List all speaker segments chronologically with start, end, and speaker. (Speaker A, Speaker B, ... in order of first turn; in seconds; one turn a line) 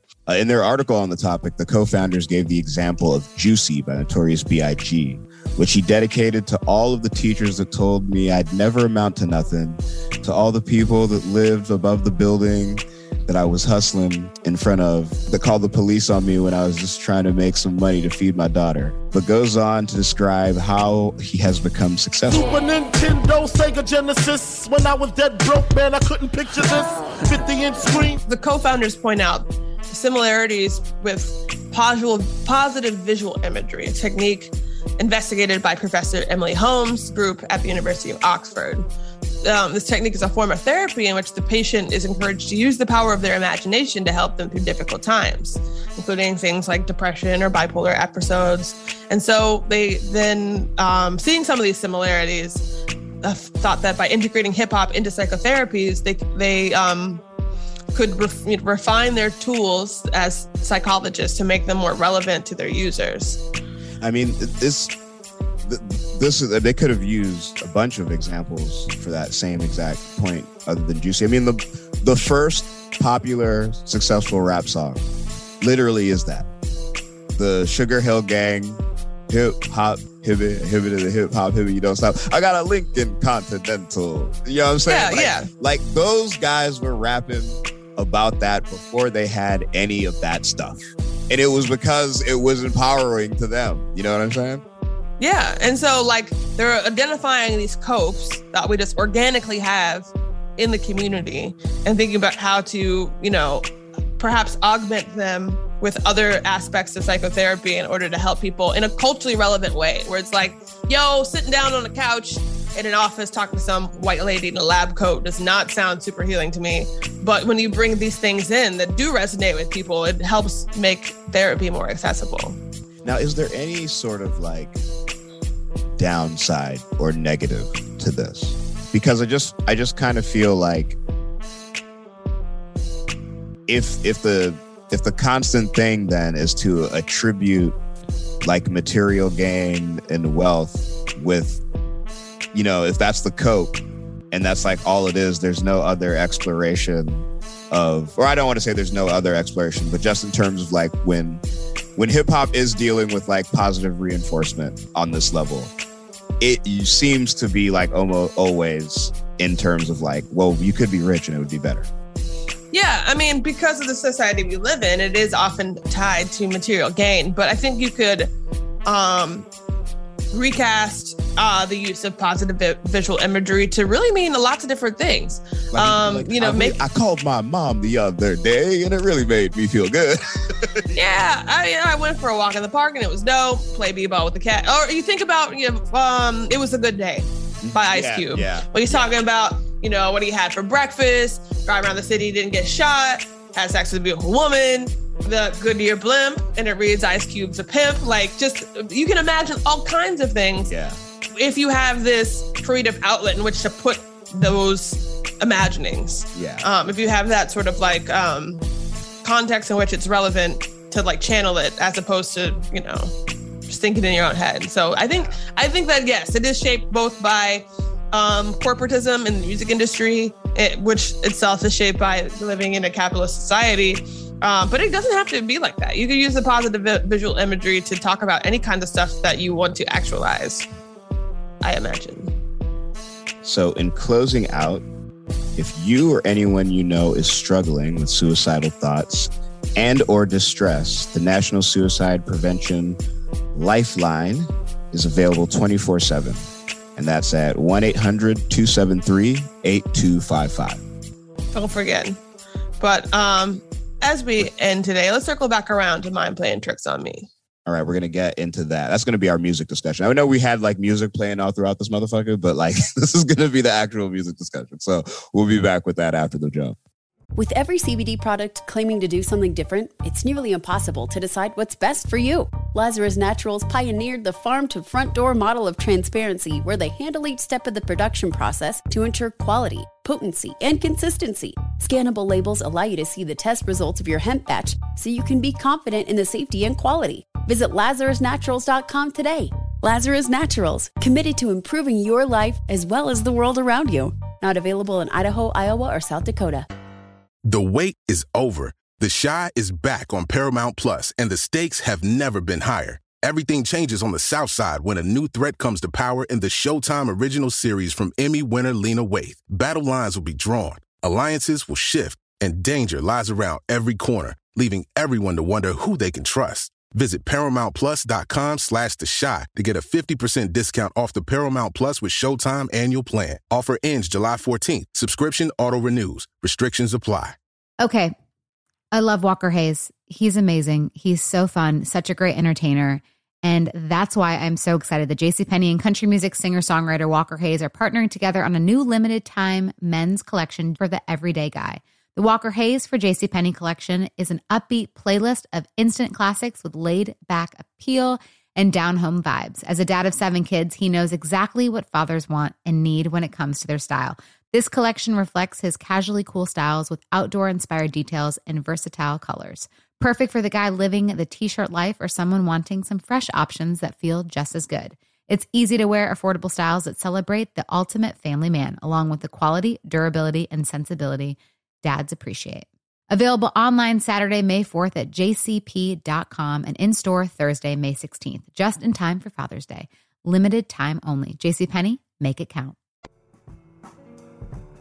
Speaker A: 0.3-22.5
Speaker B: 22.3-28.2
Speaker C: 28.2-38.9
Speaker C: 39.4-52.6
Speaker C: 53.2-57.2
Speaker C: 57.9-63.4
Speaker A: 64.0-64.9
Speaker A: 65.6-75.0
Speaker A: 75.6-76.5
Speaker A: 77.3-94.6
Speaker C: 84.9-85.5
Speaker C: 95.2-103.7
Speaker C: 104.2-122.6
Speaker A: 123.0-124.8
Speaker A: 126.0-131.0
Speaker A: 133.7-137.8
Speaker A: 138.4-141.6
Speaker A: 142.5-143.8
Speaker A: 144.3-151.4
Speaker A: 152.0-155.7
Speaker A: 156.4-161.9
Speaker C: 162.7-168.3
Speaker C: 168.8-169.5
Speaker C: 170.3-176.8
Speaker A: 175.7-180.9
Speaker C: 180.9-200.7
Speaker A: 187.6-189.1
Speaker A: 200.7-201.0
Speaker C: 201.3-208.6
Speaker A: 206.3-206.7
Speaker C: 209.2-213.1
Speaker C: 213.7-230.7
Speaker C: 231.6-232.3
Speaker A: 233.4-234.8
Speaker A: 235.6-243.0
Speaker A: 243.5-250.8
Speaker C: 251.5-252.2
Speaker C: 252.8-257.3
Speaker A: 257.7-266.8
Speaker D: 267.4-296.7
Speaker E: 297.5-327.4
Speaker F: 327.8-328.1
Speaker F: 328.9-382.8